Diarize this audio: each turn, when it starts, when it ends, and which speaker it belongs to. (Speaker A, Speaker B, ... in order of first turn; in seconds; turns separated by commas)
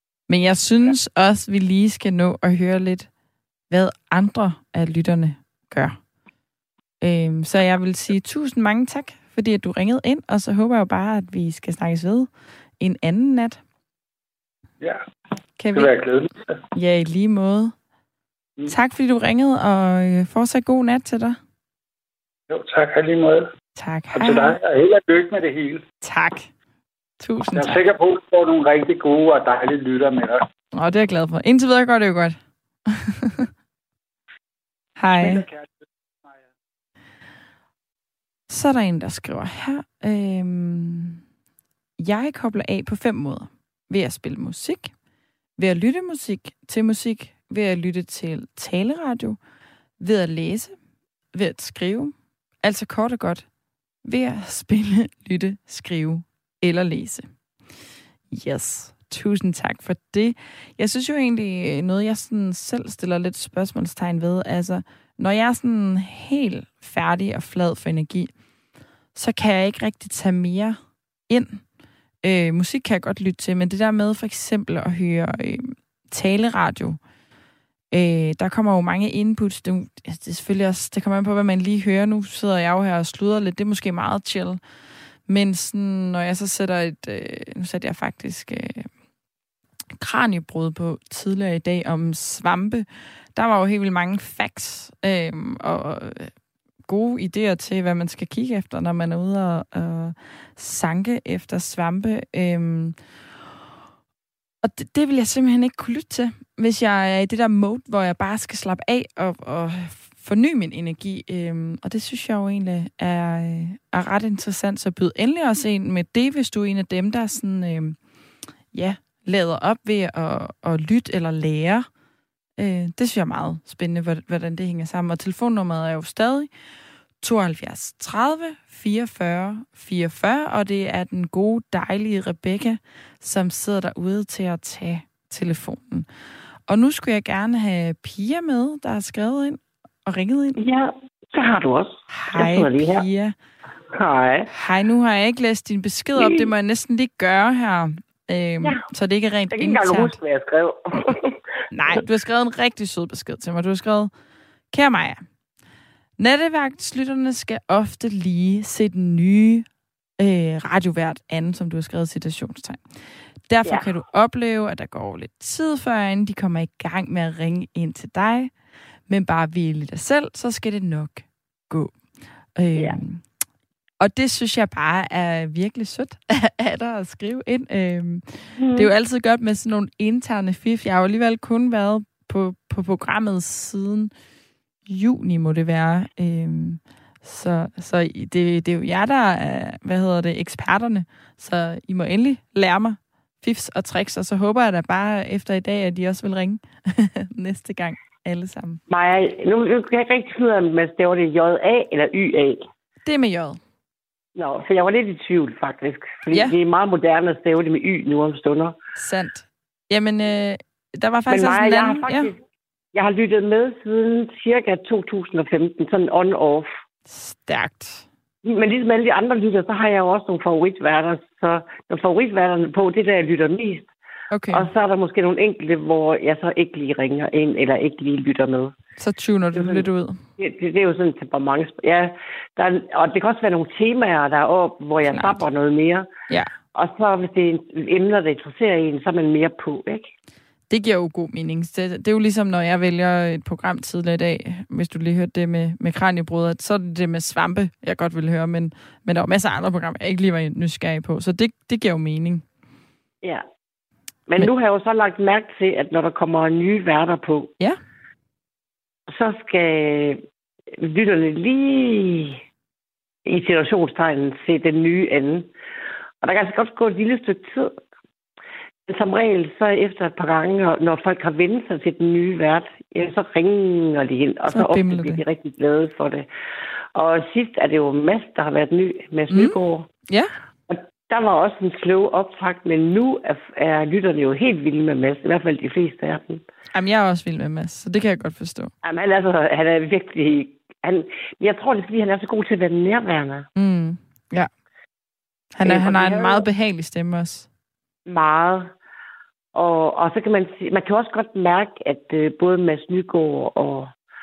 Speaker A: 0.3-3.1, Speaker A: 3.7-6.0, Speaker A: 7.0-13.6, Speaker A: 15.6-15.9, Speaker B: 15.7-16.4, Speaker A: 16.7-17.8, Speaker A: 18.7-21.4, Speaker B: 22.5-23.5, Speaker A: 23.8-24.6, Speaker B: 24.1-25.8, Speaker A: 26.0-26.5, Speaker A: 27.2-27.8, Speaker B: 27.6-30.4, Speaker A: 30.7-33.5, Speaker A: 35.0-35.5, Speaker B: 35.2-36.4, Speaker A: 38.5-41.2, Speaker A: 42.0-44.9, Speaker A: 45.6-49.4, Speaker A: 50.0-50.8, Speaker A: 51.3-53.5, Speaker A: 54.0-57.3, Speaker A: 58.3-68.3, Speaker A: 69.1-71.6, Speaker A: 72.2-77.0, Speaker A: 77.9-84.6, Speaker A: 85.3-88.9, Speaker A: 90.0-96.3, Speaker A: 96.9-103.0, Speaker A: 104.6-118.0, Speaker A: 118.7-121.9, Speaker A: 122.6-126.5, Speaker A: 127.2-136.1, Speaker A: 136.7-140.6, Speaker C: 140.6-143.1, Speaker A: 142.1-143.3, Speaker C: 143.9-144.5, Speaker A: 144.5-150.2, Speaker C: 149.5-151.4, Speaker A: 151.7-154.1, Speaker A: 154.7-155.2, Speaker A: 156.2-159.7, Speaker A: 160.2-162.8, Speaker A: 163.5-168.5, Speaker A: 169.1-171.9, Speaker A: 172.6-173.2, Speaker A: 174.0-184.1, Speaker C: 178.6-178.9, Speaker A: 184.9-198.8, Speaker C: 198.9-202.6, Speaker A: 203.1-203.6, Speaker C: 204.3-208.8, Speaker A: 209.0-212.3, Speaker C: 211.3-212.4, Speaker C: 212.9-216.7, Speaker A: 217.1-218.1, Speaker C: 218.4-223.9, Speaker A: 224.3-224.7, Speaker C: 224.5-228.8, Speaker A: 229.0-230.2, Speaker C: 229.6-229.9, Speaker C: 230.4-236.1, Speaker A: 235.1-235.4, Speaker C: 236.7-240.1, Speaker A: 240.7-252.4, Speaker C: 254.3-257.5, Speaker C: 259.1-260.2, Speaker C: 260.8-262.4, Speaker C: 263.3-265.5, Speaker C: 266.2-267.7, Speaker C: 268.9-276.3, Speaker A: 274.5-275.2, Speaker C: 276.9-279.9, Speaker A: 280.1-280.3, Speaker C: 280.7-286.4, Speaker A: 286.7-288.7, Speaker C: 288.8-293.5, Speaker A: 293.6-294.5, Speaker A: 295.6-297.5, Speaker C: 295.6-296.4, Speaker C: 298.1-298.7, Speaker C: 299.5-303.9